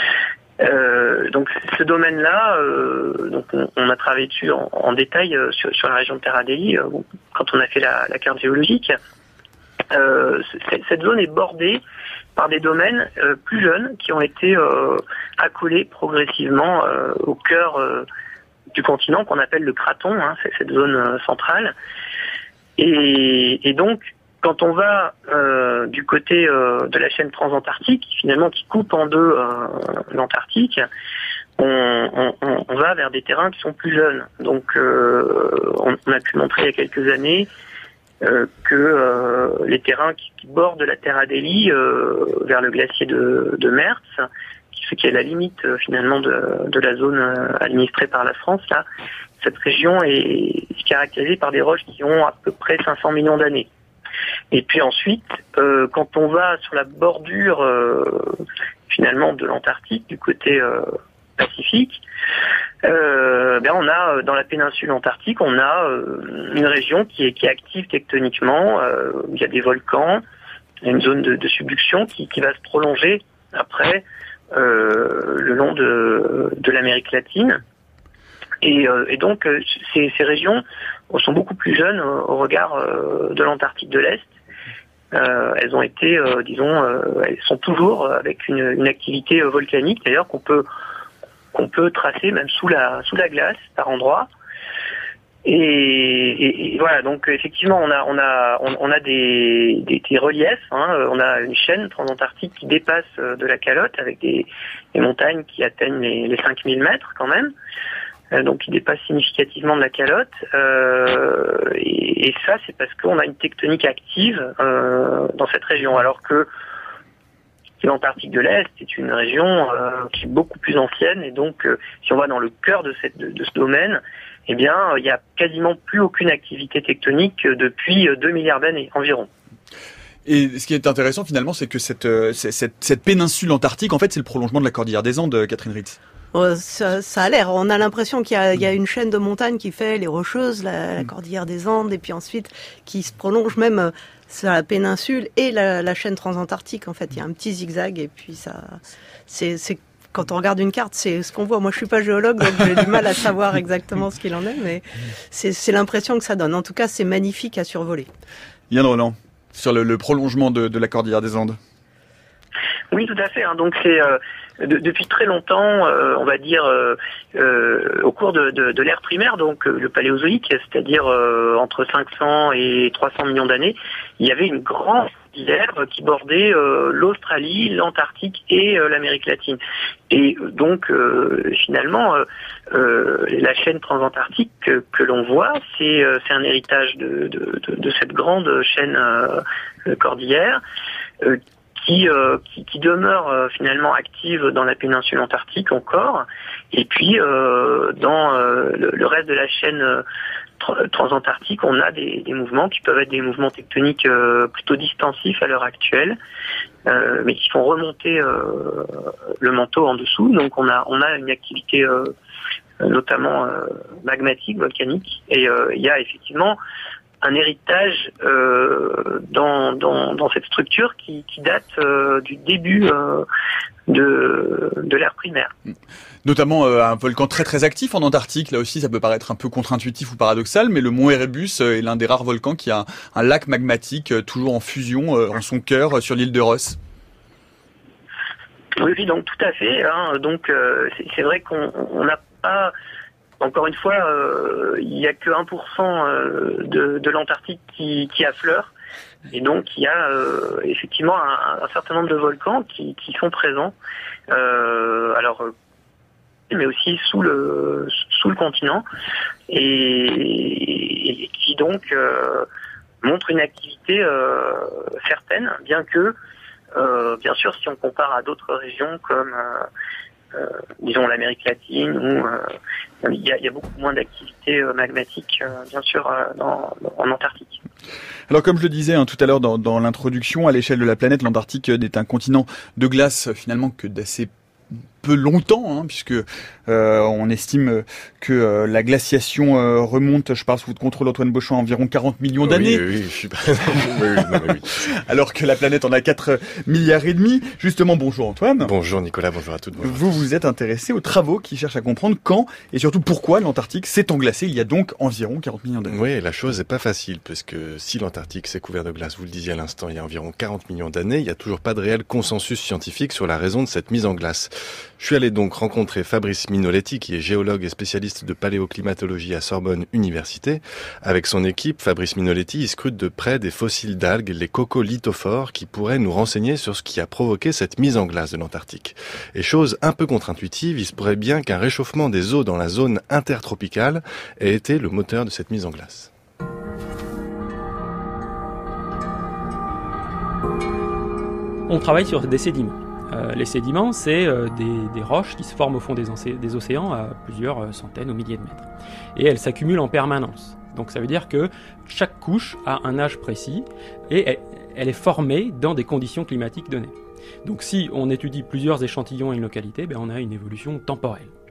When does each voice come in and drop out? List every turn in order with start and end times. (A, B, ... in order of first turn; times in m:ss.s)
0:00.6-0:09.0 A
0:09.9-0:11.8 A
0:12.4-0:18.1 A
0:18.7-0:21.8 A
0:22.8-0:30.9 A
0:31.6-0:37.5 A
0:38.2-0:48.9 A
0:49.4-0:53.7 A
0:54.5-1:02.0 A
1:02.8-1:10.2 A
1:10.8-1:17.6 A
1:18.6-1:24.3 A
1:25.1-1:30.7 A
1:31.5-1:34.3 A
1:35.4-1:47.5 A
1:48.3-1:56.5 A
1:57.8-2:09.3 A
2:10.3-2:16.0 B
2:16.3-2:38.1 C
2:38.7-2:41.6 B
2:42.9-2:59.6 A
3:00.1-3:10.6 A
3:11.2-3:20.0 A
3:20.6-3:26.2 A
3:26.9-3:32.1 A
3:32.8-3:36.6 A
3:37.2-3:43.3 A
3:43.9-3:45.5 A
3:46.2-3:56.8 B
3:58.8-4:02.7 A
4:03.4-4:08.7 A
4:09.3-4:13.7 A
4:14.3-4:15.5 A
4:16.5-4:18.9 A
4:19.5-4:22.5 A
4:23.0-4:26.2 A
4:26.8-4:29.7 A
4:30.3-4:32.5 A
4:33.0-4:37.6 A
4:38.3-4:44.3 B
4:45.0-4:52.9 B
4:52.4-4:55.0 D
4:54.8-4:58.7 B
4:58.6-5:00.2 D
4:59.8-5:06.0 B
5:05.9-5:36.1 D
5:41.7-6:01.3 E